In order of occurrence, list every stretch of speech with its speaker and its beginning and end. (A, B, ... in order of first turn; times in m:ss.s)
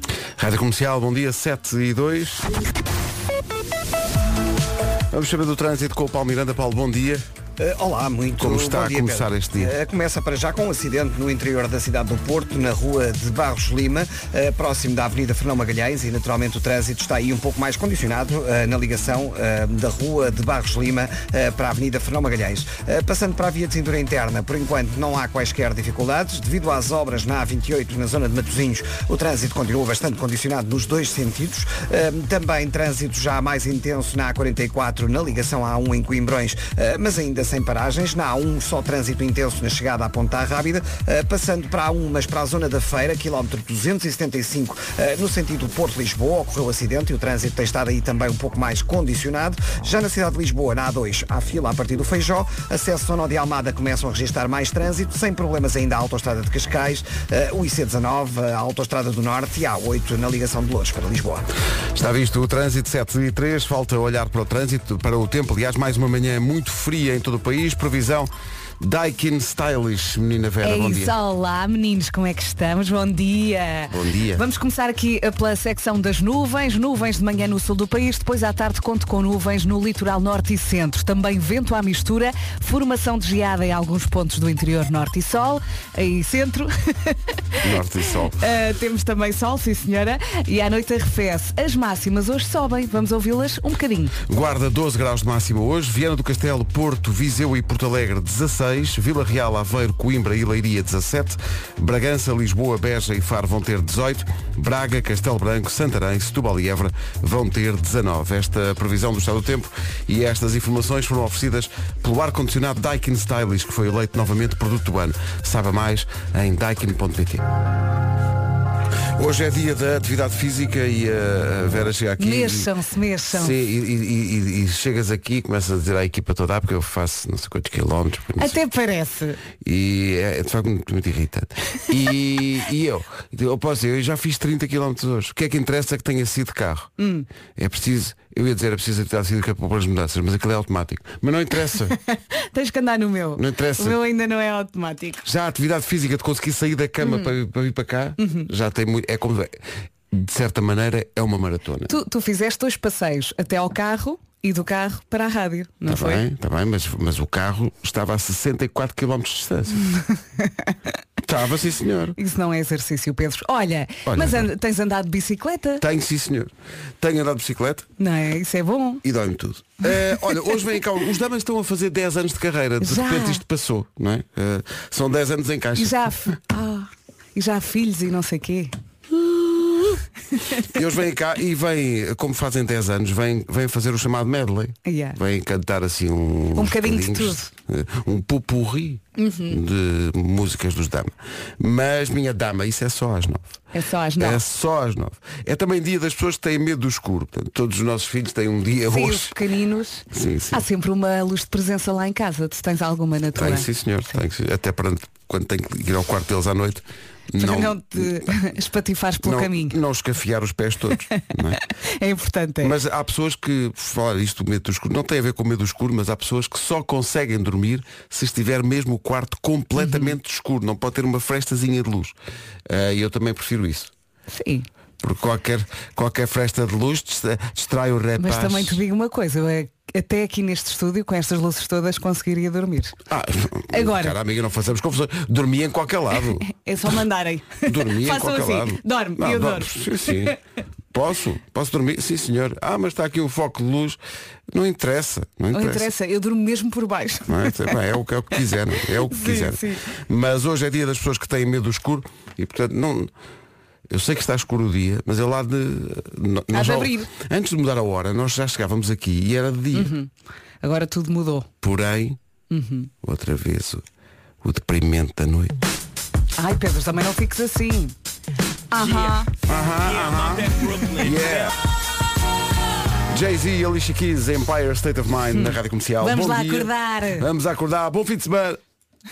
0:00.4-0:02.5 A
0:05.1-0:07.2 A
0:07.6-1:01.5 B
0:08.4-0:09.7 A
1:01.9-1:11.1 A
1:10.6-1:27.6 C
1:13.9-1:14.4 A
1:27.6-1:28.4 A
1:28.4-1:34.2 C
1:34.2-1:57.4 A
1:59.2-2:02.7 A
2:02.2-2:03.6 C
2:03.3-2:08.6 A
2:08.4-2:09.4 C
2:09.6-2:16.9 A
2:17.0-2:17.3 C
2:17.6-2:22.0 A
2:21.9-2:25.3 C
2:23.4-2:24.0 A
2:25.2-2:31.9 A
2:27.0-2:27.3 C
2:28.2-2:28.5 C
2:31.9-2:36.2 C
2:35.8-2:39.9 A
2:39.9-2:40.7 C
2:41.2-2:42.2 A
2:42.2-2:45.8 C
2:44.1-2:44.5 A
2:45.8-2:47.9 A
2:48.0-2:49.0 C
2:49.0-2:56.1 A
2:52.8-2:53.4 C
2:55.8-2:58.7 C
3:00.6-3:13.6 A
3:04.8-3:05.2 C
3:06.6-3:07.5 C
3:09.2-3:09.6 C
3:13.7-3:14.4 C
3:14.2-3:19.3 A
3:18.9-3:23.7 C
3:20.1-3:20.6 A
3:23.3-3:28.3 A
3:27.4-3:29.8 C
3:29.2-3:31.6 A
3:31.1-3:32.7 C
3:32.6-3:42.1 A
3:39.8-3:40.1 C
3:42.7-3:43.9 A
3:44.3-3:44.7 C
3:45.0-3:48.8 A
3:48.2-3:53.0 C
3:53.1-3:56.5 A
3:53.7-3:54.2 C
3:56.5-4:00.4 C
3:57.6-4:00.4 A
4:00.9-4:04.0 A
4:04.5-4:05.9 A
4:05.5-4:07.8 C
4:07.3-4:13.1 A
4:09.0-4:09.8 C
4:13.9-4:19.9 A
4:16.5-4:17.1 C
4:19.7-4:20.1 C
4:20.6-4:21.5 C
4:21.6-4:22.2 A
4:22.5-4:22.9 C
4:23.0-4:23.8 A
4:24.4-4:25.6 A
4:26.4-4:28.0 C
4:28.7-4:29.3 C
4:29.4-4:31.5 A
4:33.1-4:38.6 A
4:35.3-4:37.3 C